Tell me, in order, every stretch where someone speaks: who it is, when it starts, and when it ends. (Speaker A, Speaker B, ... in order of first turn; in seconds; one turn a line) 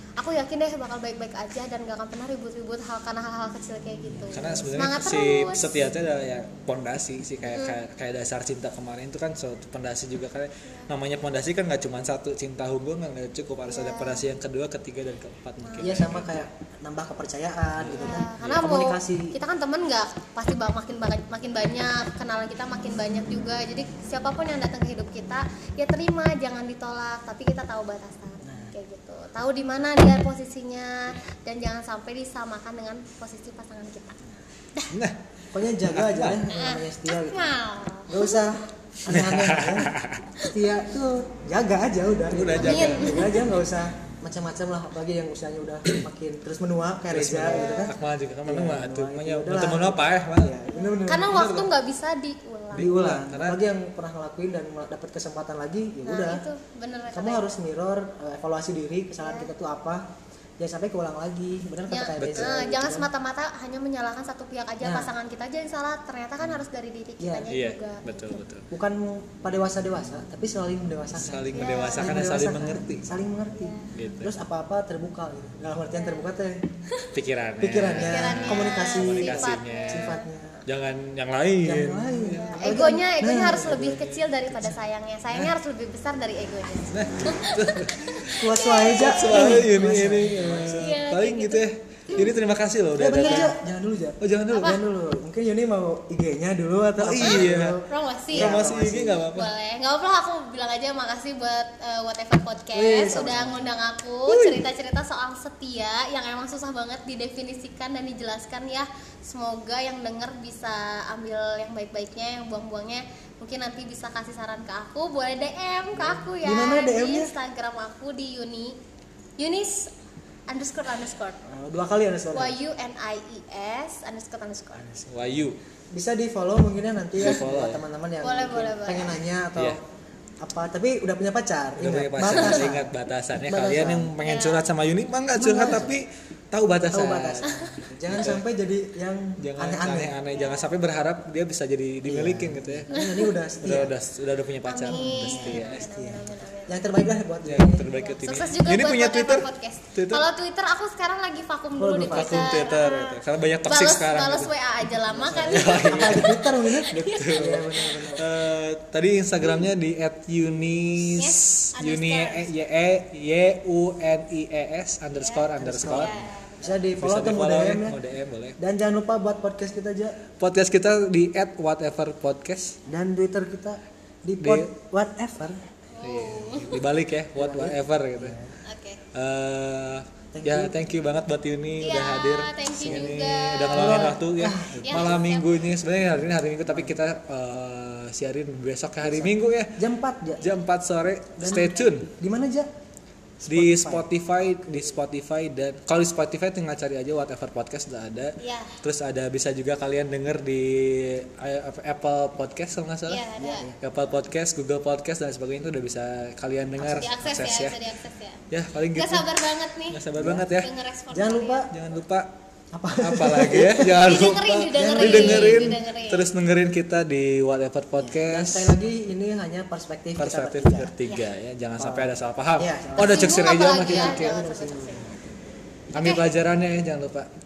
Speaker A: 0.2-5.7
Speaker B: 4.3-16.5
Speaker A: 7.5-7.8
Speaker A: 13.7-14.2
Speaker A: 15.6-16.0
Speaker C: 15.8-19.3
Speaker B: 17.8-18.6
Speaker A: 17.9-34.2
Speaker C: 28.4-28.7
Speaker B: 34.9-35.2
Speaker C: 35.5-37.5
Speaker B: 35.9-36.5
Speaker A: 36.5-38.4
Speaker C: 38.1-39.9
Speaker B: 39.1-40.2
Speaker C: 40.5-47.9
Speaker B: 42.3-43.4
Speaker A: 42.5-43.4
Speaker B: 47.1-50.5
Speaker A: 47.5-47.9
Speaker C: 48.5-51.4
Speaker A: 50.7-52.9
Speaker B: 51.2-51.7
Speaker B: 52.7-53.6
Speaker C: 52.8-56.4
Speaker A: 56.0-57.5
Speaker C: 57.1-60.0
Speaker A: 59.2-59.5
Speaker C: 60.6-63.1
Speaker A: 61.9-68.4
Speaker B: 62.2-62.5
Speaker C: 64.8-65.1
Speaker C: 67.2-67.5
Speaker B: 67.5-68.7
Speaker C: 68.7-76.7
Speaker B: 71.2-73.0
Speaker A: 71.5-72.2
Speaker A: 73.5-73.9
Speaker B: 73.9-74.3
Speaker A: 75.9-76.3
Speaker B: 77.1-84.7
Speaker C: 77.6-80.6
Speaker A: 78.0-80.3
Speaker C: 81.6-83.9
Speaker A: 82.3-89.6
Speaker B: 86.9-93.5
Speaker C: 88.3-91.0
Speaker A: 90.7-92.3
Speaker C: 93.0-99.2
Speaker A: 93.2-93.5
Speaker B: 94.2-94.8
Speaker A: 94.5-94.8
Speaker B: 97.0-97.8
Speaker A: 97.2-98.5
Speaker B: 98.3-99.5
Speaker A: 99.3-118.8
Speaker C: 102.7-103.7
Speaker B: 104.3-104.6
Speaker C: 115.9-117.3
Speaker A: 119.4-119.9
Speaker A: 120.5-121.4
Speaker C: 121.4-122.6
Speaker A: 122.3-124.9
Speaker B: 125.0-125.6
Speaker C: 125.9-129.8
Speaker B: 127.2-127.8
Speaker A: 128.2-129.2
Speaker C: 130.4-132.9
Speaker B: 131.8-137.5
Speaker C: 133.5-134.1
Speaker A: 134.2-134.7
Speaker C: 135.3-135.9
Speaker C: 136.9-140.1
Speaker A: 137.5-137.7
Speaker B: 138.1-138.4
Speaker B: 139.4-142.9
Speaker A: 140.3-140.7
Speaker C: 142.1-143.9
Speaker A: 142.9-143.3
Speaker B: 143.6-145.8
Speaker A: 144.7-146.8
Speaker C: 144.9-148.1
Speaker B: 147.4-150.2
Speaker A: 148.1-158.2
Speaker C: 151.8-152.7
Speaker B: 152.1-166.1
Speaker C: 155.2-158.2
Speaker A: 161.1-162.5
Speaker A: 165.2-166.8
Speaker C: 165.6-168.0
Speaker B: 167.0-168.6
Speaker C: 168.6-170.2
Speaker B: 170.4-172.8
Speaker C: 172.8-175.6
Speaker B: 174.4-174.7
Speaker A: 175.9-176.8
Speaker B: 176.0-178.4
Speaker C: 177.3-178.5
Speaker A: 178.6-179.0
Speaker B: 179.1-189.8
Speaker C: 180.3-180.8
Speaker A: 181.8-184.2
Speaker C: 182.8-183.2
Speaker C: 183.7-185.3
Speaker A: 184.8-185.5
Speaker C: 186.7-186.9
Speaker C: 189.0-190.5
Speaker B: 190.4-192.1
Speaker C: 191.4-192.7
Speaker C: 193.4-194.0
Speaker B: 193.4-203.2
Speaker A: 198.4-198.8
Speaker A: 203.1-203.7
Speaker C: 203.4-203.8
Speaker B: 203.8-207.8
Speaker A: 206.8-210.0
Speaker B: 208.5-209.3
Speaker B: 209.9-210.7
Speaker C: 210.2-210.5
Speaker A: 210.6-211.7
Speaker C: 211.1-211.7
Speaker B: 211.7-212.3
Speaker C: 212.7-213.9
Speaker B: 213.0-218.8
Speaker A: 213.9-216.3
Speaker C: 214.7-215.8
Speaker C: 218.0-220.9
Speaker B: 220.2-224.3
Speaker C: 221.8-225.1
Speaker A: 223.0-225.2
Speaker A: 225.9-226.3
Speaker B: 225.9-227.3